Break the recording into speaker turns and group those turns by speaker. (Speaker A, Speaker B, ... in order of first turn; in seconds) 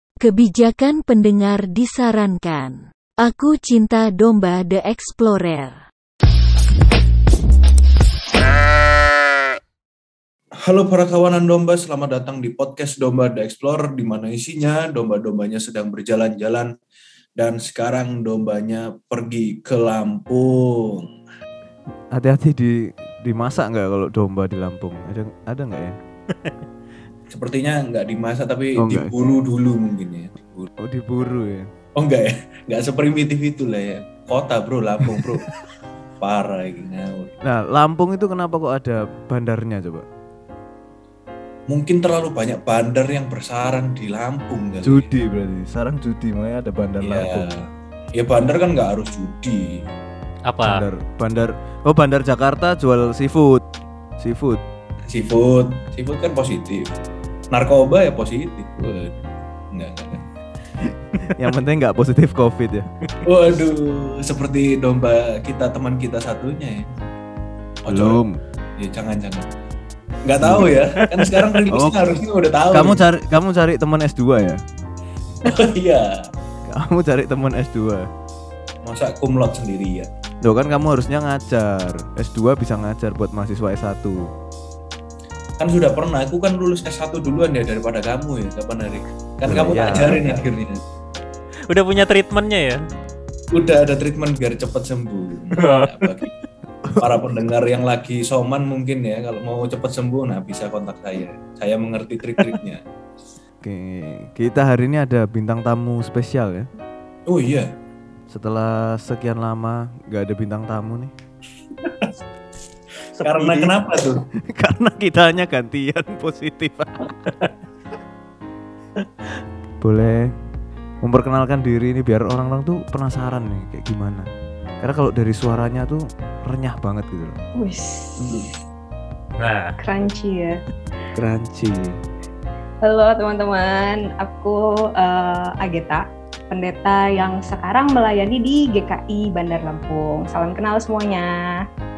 Speaker A: 0.2-5.8
Speaker B: 10.7-16.7, 17.4-21.1, 27.3-30.7, 32.0-35.5, 36.2-37.3, 41.7-45.1, 47.0-47.7, 48.2-49.8, 55.1-56.9, 57.5-59.2, 59.7-60.2, 63.2-66.9, 67.8-68.2, 68.8-69.5, 70.2-73.0, 75.4-76.3, 78.8-80.1, 85.6-90.8, 93.5-96.3, 97.0-102.8, 107.3-107.7, 111.8-112.1, 113.2-114.2
Speaker C: 22.1-26.0, 28.8-29.1, 30.8-31.7, 37.4-40.0, 44.8-47.5, 50.6-53.6, 54.2-54.6, 61.4-62.9, 67.9-68.3, 70.4-70.7, 71.7-72.0, 72.7-74.6, 76.7-78.1, 80.4-84.2, 89.5-90.3, 96.8-97.4, 103.6-106.7, 108.3-111.1, 114.4-117.1, 119.8-120.3, 121.0-124.3, 124.8-127.4, 131.2-132.0
Speaker D: 50.5-50.8, 91.7-92.8, 95.5-95.9, 113.2-113.8, 117.2-117.5, 129.4-129.7
Speaker E: 127.6-128.4, 129.8-130.6, 132.8-141.5